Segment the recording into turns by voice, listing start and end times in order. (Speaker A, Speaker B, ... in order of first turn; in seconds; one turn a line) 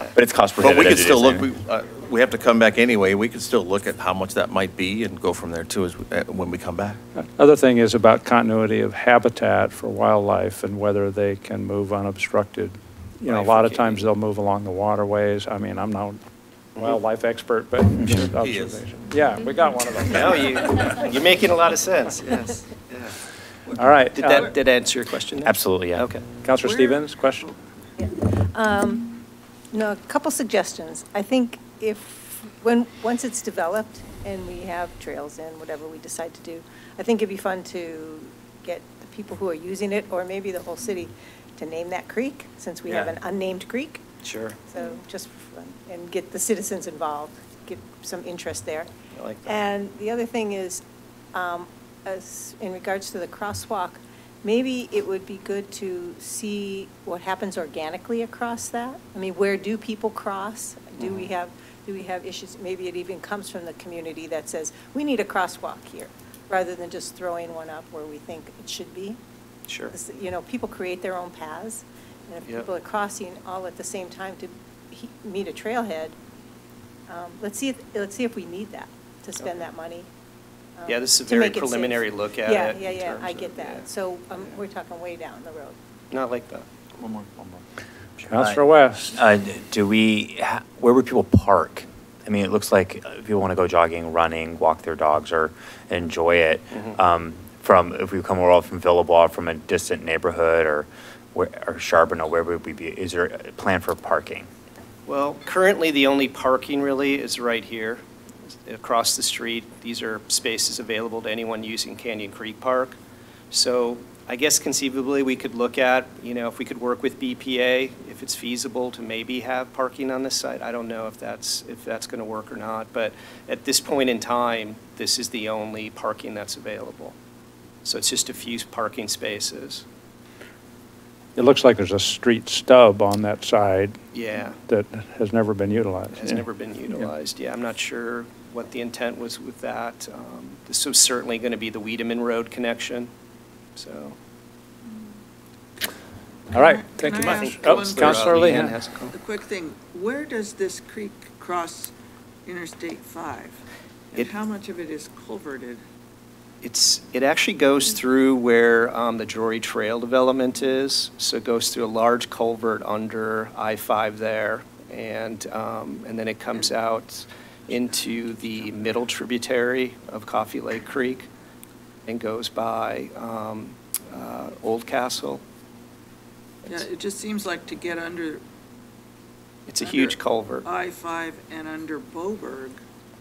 Speaker A: 0.1-1.5
Speaker B: 0.6-7.0
Speaker C: 7.2-16.2
Speaker D: 13.3-14.1
Speaker C: 16.8-20.8
Speaker B: 18.3-18.8
Speaker D: 20.1-23.1
Speaker C: 23.8-24.6
Speaker D: 24.1-26.3
Speaker A: 25.4-26.1
Speaker C: 26.3-27.5
Speaker E: 26.6-27.6
Speaker F: 28.0-29.2
Speaker F: 29.7-44.0
Speaker D: 44.2-44.5
Speaker F: 44.7-48.9
Speaker D: 49.2-49.5
Speaker F: 49.5-50.8
Speaker F: 51.3-69.2
Speaker D: 69.7-69.9
Speaker F: 69.9-76.2
Speaker F: 77.1-80.1
Speaker F: 80.8-85.8
Speaker D: 80.9-83.9
Speaker D: 86.1-86.7
Speaker B: 87.0-87.6
Speaker C: 88.3-89.2
Speaker A: 88.3-88.6
Speaker A: 89.1-104.5
Speaker D: 105.1-108.0
Speaker D: 108.7-113.0
Speaker D: 113.5-127.2
Speaker D: 127.8-129.8
Speaker C: 131.4-134.0
Speaker D: 134.1-134.6
Speaker C: 134.7-137.1
Speaker D: 136.1-143.1
Speaker D: 143.8-144.2
Speaker E: 146.5-148.6
Speaker C: 146.5-148.8
Speaker D: 147.2-149.2
Speaker E: 149.1-151.9
Speaker E: 152.5-153.6
Speaker E: 154.1-155.8
Speaker D: 156.6-171.3
Speaker E: 167.7-168.8
Speaker D: 172.1-175.4
Speaker E: 176.7-178.4
Speaker D: 179.7-180.7
Speaker E: 179.8-182.8